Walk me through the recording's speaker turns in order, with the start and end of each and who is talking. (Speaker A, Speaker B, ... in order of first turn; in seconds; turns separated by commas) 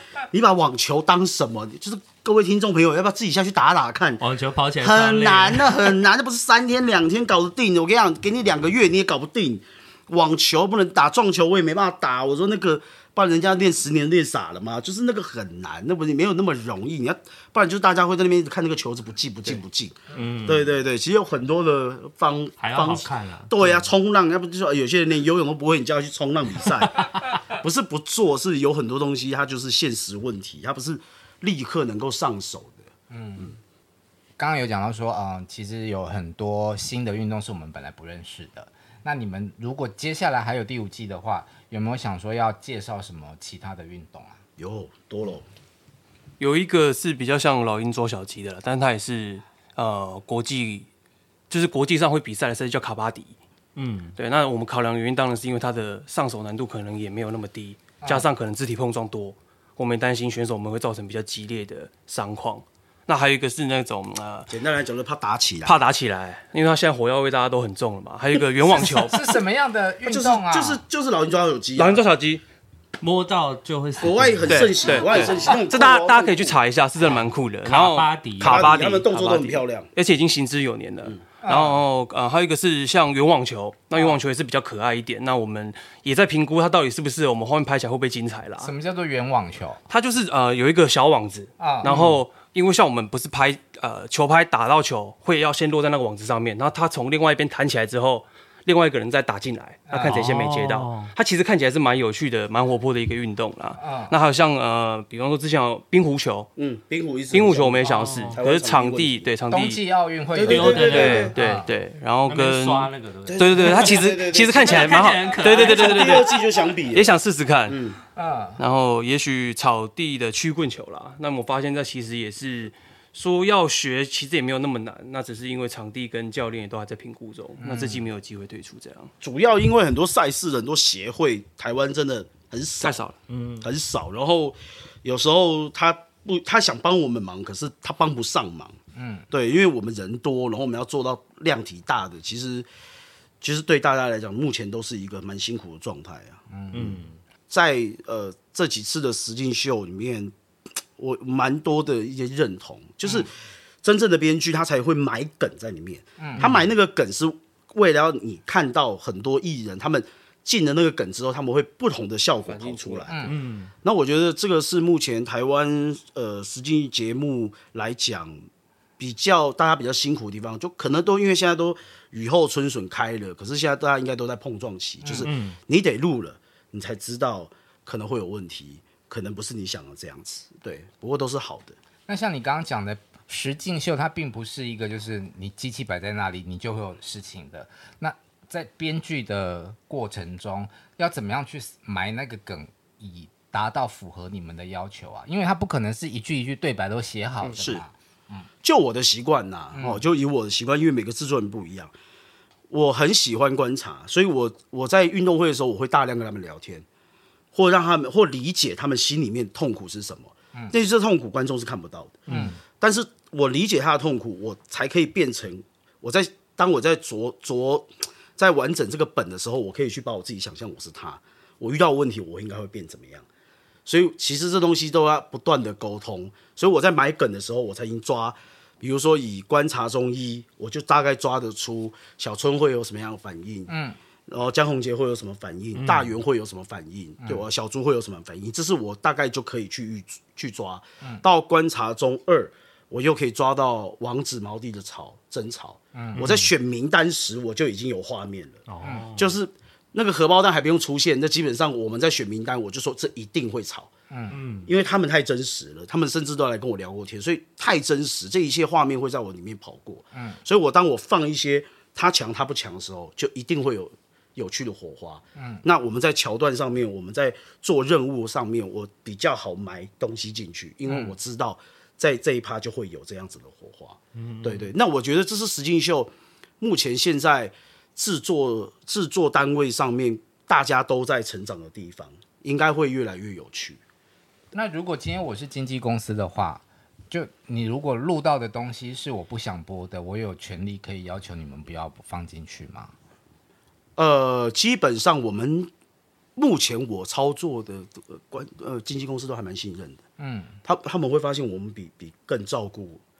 Speaker A: 0.3-4.2, Speaker B: 4.2-5.9, Speaker A: 4.8-32.9, Speaker B: 20.1-20.7, Speaker B: 22.6-23.9, Speaker C: 33.1-33.5, Speaker C: 34.4-44.4, Speaker A: 44.6-45.5, Speaker D: 46.4-50.9, Speaker D: 51.5-53.3, Speaker B: 53.8-54.1, Speaker D: 54.2-64.5, Speaker A: 64.5-65.7, Speaker D: 65.6-69.3, Speaker C: 68.7-70.8, Speaker A: 70.0-72.0, Speaker D: 71.8-72.4, Speaker B: 73.0-75.3, Speaker A: 74.0-76.6, Speaker D: 74.5-88.7, Speaker B: 77.6-78.7, Speaker A: 78.4-79.9, Speaker C: 81.4-81.8, Speaker C: 88.6-89.8, Speaker D: 89.9-106.5, Speaker C: 91.6-91.9, Speaker B: 91.8-92.2, Speaker C: 99.9-100.2, Speaker B: 100.0-101.1, Speaker C: 103.8-104.1, Speaker A: 106.6-109.3, Speaker D: 107.3-109.8, Speaker B: 107.9-108.4, Speaker C: 109.5-111.7, Speaker A: 110.3-111.3, Speaker B: 110.4-111.3, Speaker D: 110.8-116.3, Speaker B: 112.2-114.0, Speaker A: 113.2-117.1, Speaker B: 114.6-116.2, Speaker D: 116.9-117.8, Speaker A: 117.7-118.0, Speaker C: 118.2-118.6, Speaker D: 118.6-129.1, Speaker C: 127.6-128.1, Speaker A: 129.2-133.0, Speaker D: 132.8-133.2, Speaker B: 133.3-133.7, Speaker A: 133.6-138.7, Speaker C: 138.9-139.3, Speaker A: 139.3-142.7, Speaker A: 143.4-146.4, Speaker C: 146.5-147.0, Speaker B: 146.7-147.2, Speaker A: 147.5-150.3, Speaker A: 151.0-153.3, Speaker A: 153.8-163.2, Speaker C: 156.2-156.5, Speaker B: 156.4-156.7, Speaker D: 162.4-163.2, Speaker C: 163.1-163.3, Speaker B: 163.2-163.7, Speaker A: 163.8-168.4, Speaker A: 169.0-181.8, Speaker C: 175.0-175.3, Speaker B: 175.2-175.6, Speaker C: 182.1-198.5, Speaker A: 197.6-197.8, Speaker A: 198.6-201.9, Speaker C: 199.7-200.0, Speaker A: 202.7-206.8, Speaker A: 207.5-212.2, Speaker B: 212.3-212.6, Speaker C: 212.3-212.6, Speaker A: 212.8-223.2, Speaker A: 223.8-233.7, Speaker C: 233.7-234.0, Speaker A: 234.3-248.6, Speaker B: 235.8-236.2, Speaker C: 245.9-246.2, Speaker B: 246.2-246.5, Speaker B: 248.7-249.3, Speaker C: 248.8-249.1, Speaker A: 249.1-253.9, Speaker C: 254.1-254.4, Speaker B: 254.3-254.7, Speaker A: 254.7-283.8, Speaker C: 260.1-260.4, Speaker C: 265.4-265.6, Speaker C: 270.9-271.1, Speaker B: 274.1-274.7, Speaker C: 284.5-292.9, Speaker A: 294.0-295.7, Speaker A: 296.4-300.0, Speaker C: 300.2-300.6, Speaker A: 300.6-303.0